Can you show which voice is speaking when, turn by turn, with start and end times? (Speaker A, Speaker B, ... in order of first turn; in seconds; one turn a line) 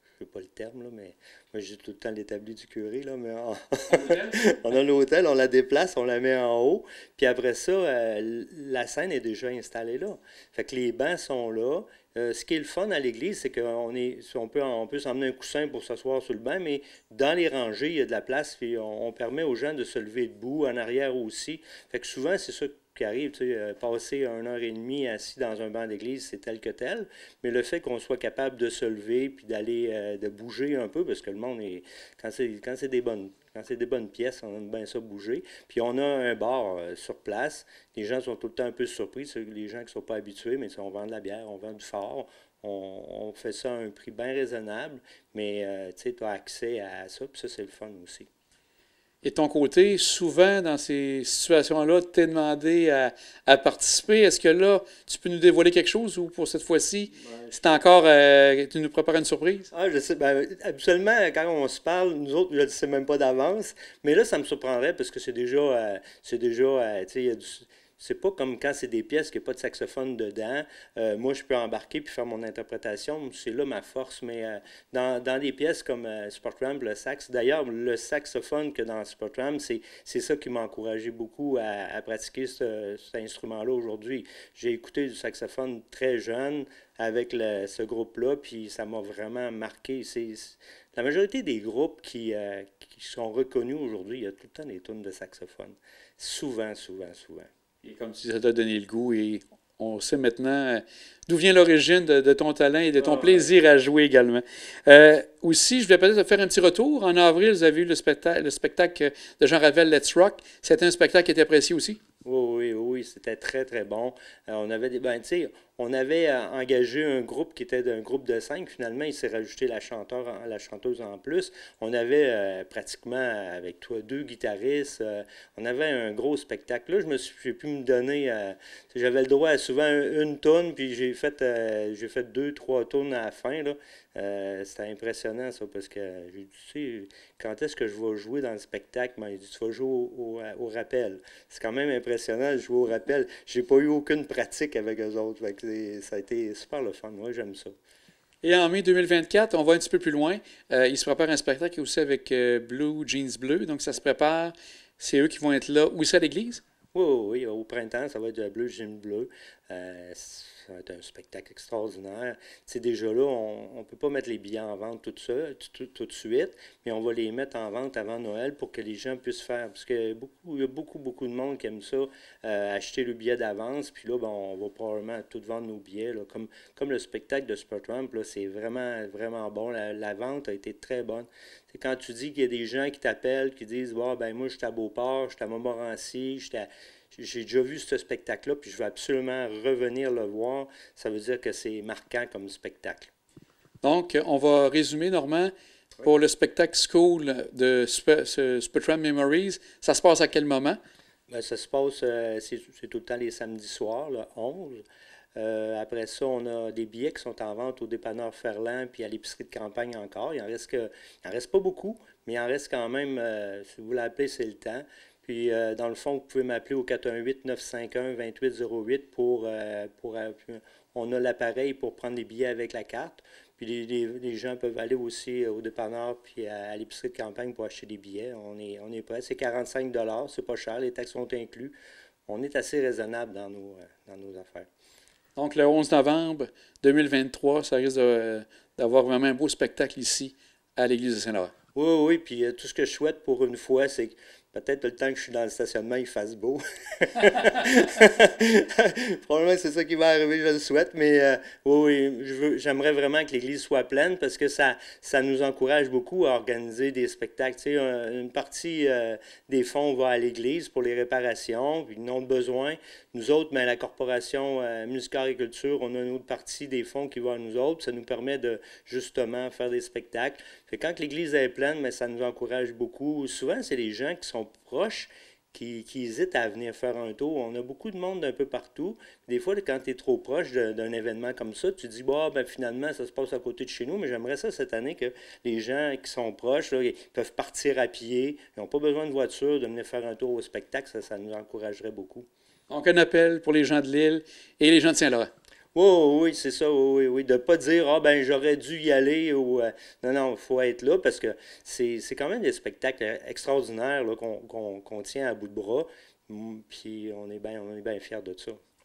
Speaker A: 0.2-48.3
Speaker B: 3.9-4.5
Speaker B: 49.2-59.7
Speaker A: 57.2-57.8
Speaker A: 59.7-97.5
Speaker B: 97.8-112.0
Speaker A: 103.0-103.5
Speaker A: 112.2-147.7
Speaker B: 148.4-156.6
Speaker A: 156.9-193.1
Speaker B: 193.8-200.8
Speaker A: 201.3-204.8
Speaker A: 205.4-231.8
Speaker A: 232.3-234.7
Speaker B: 235.4-241.5
Speaker A: 241.8-292.3
Speaker B: 292.7-295.3
Speaker A: 295.7-308.6